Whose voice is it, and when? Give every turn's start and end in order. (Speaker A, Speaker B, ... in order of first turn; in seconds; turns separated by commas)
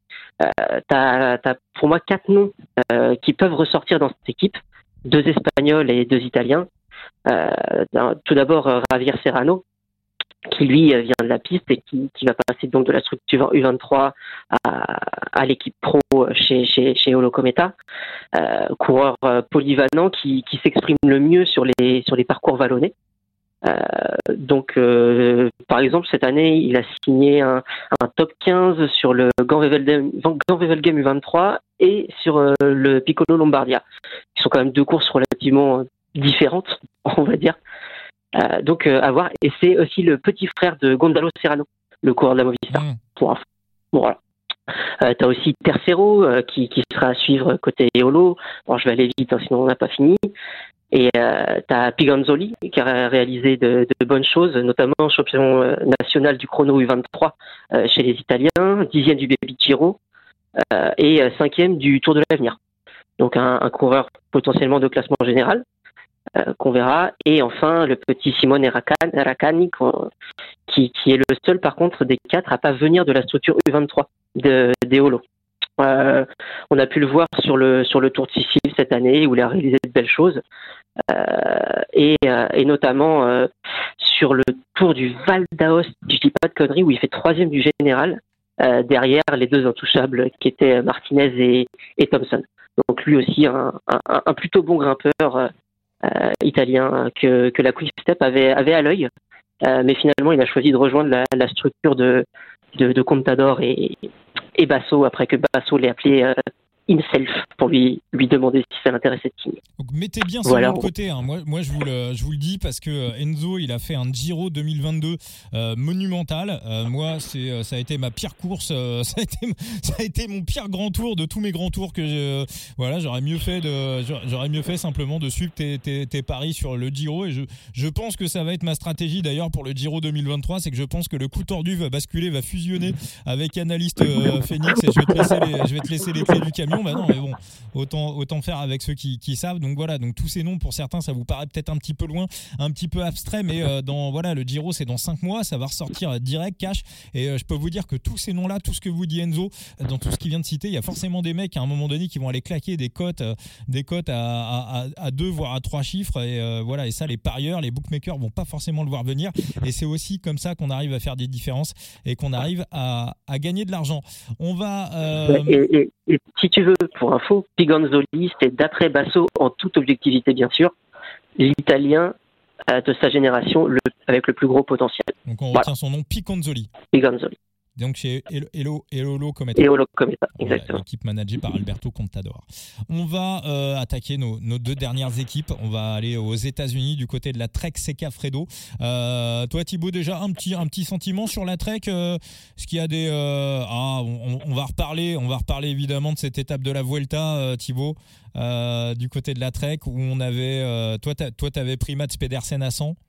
Speaker A: 0.4-6.7, Speaker A: 7.3-9.6, Speaker A: 10.5-17.7, Speaker A: 18.3-22.9, Speaker A: 23.6-33.8, Speaker A: 34.4-37.6, Speaker A: 38.3-43.4, Speaker B: 42.7-43.0, Speaker A: 45.0-50.2, Speaker A: 50.9-60.0, Speaker A: 60.7-62.6, Speaker A: 63.2-65.6, Speaker A: 66.4-70.1, Speaker A: 70.7-75.2, Speaker A: 75.8-80.4, Speaker A: 81.1-95.5, Speaker A: 96.0-99.1, Speaker A: 99.6-102.2, Speaker A: 102.8-104.1, Speaker A: 104.6-106.3, Speaker A: 106.9-109.6, Speaker B: 109.8-165.6, Speaker A: 110.5-110.9, Speaker A: 165.3-170.7, Speaker A: 171.4-172.1, Speaker A: 172.7-175.7, Speaker B: 175.3-176.7, Speaker A: 176.9-177.4, Speaker B: 177.8-179.7, Speaker A: 179.6-180.8, Speaker B: 180.4-203.0